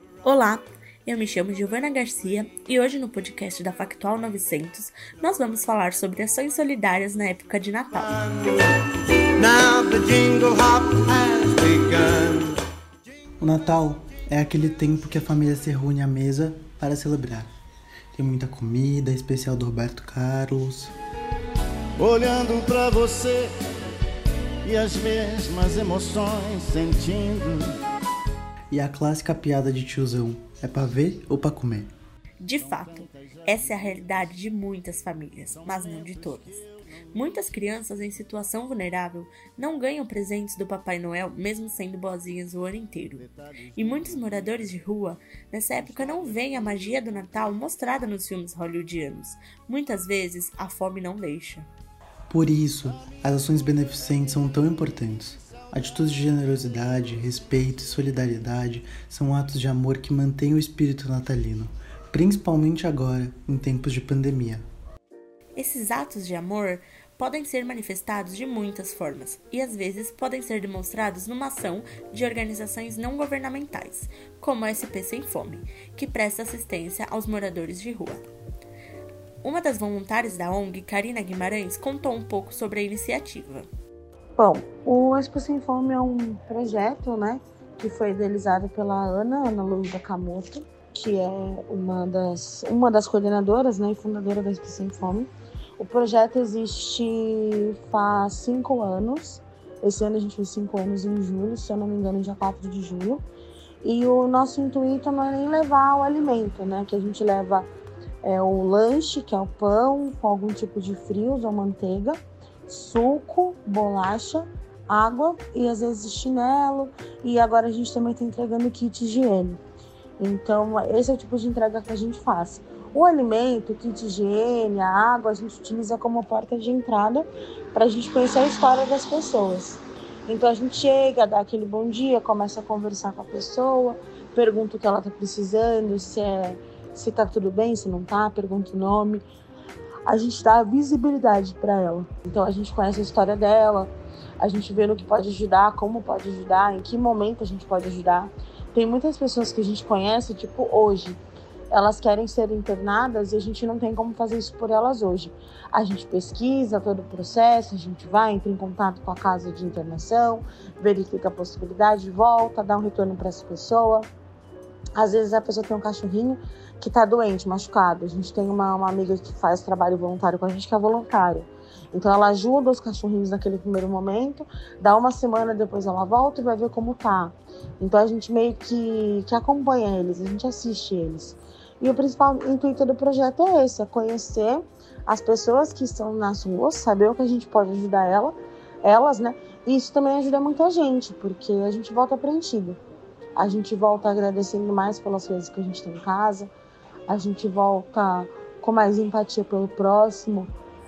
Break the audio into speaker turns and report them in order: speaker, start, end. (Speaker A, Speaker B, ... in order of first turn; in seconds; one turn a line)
Speaker A: 0.2-8.2
Speaker B: 8.4-8.7
Speaker B: 9.3-12.6
Speaker C: 13.4-17.5
Speaker C: 18.1-20.9
Speaker B: 21.9-23.5
Speaker B: 24.6-27.8
Speaker C: 28.7-31.9
Speaker A: 32.4-51.7
Speaker C: 52.3-64.7
Speaker A: 65.5-78.2
Speaker A: 79.4-83.7
Speaker D: 84.3-103.2
Speaker D: 103.8-107.7
Speaker D: 108.2-119.6
Speaker D: 120.2-139.2
Speaker D: 140.1-164.1
Speaker D: 164.9-192.8
Speaker D: 193.3-196.5
Speaker D: 197.1-200.5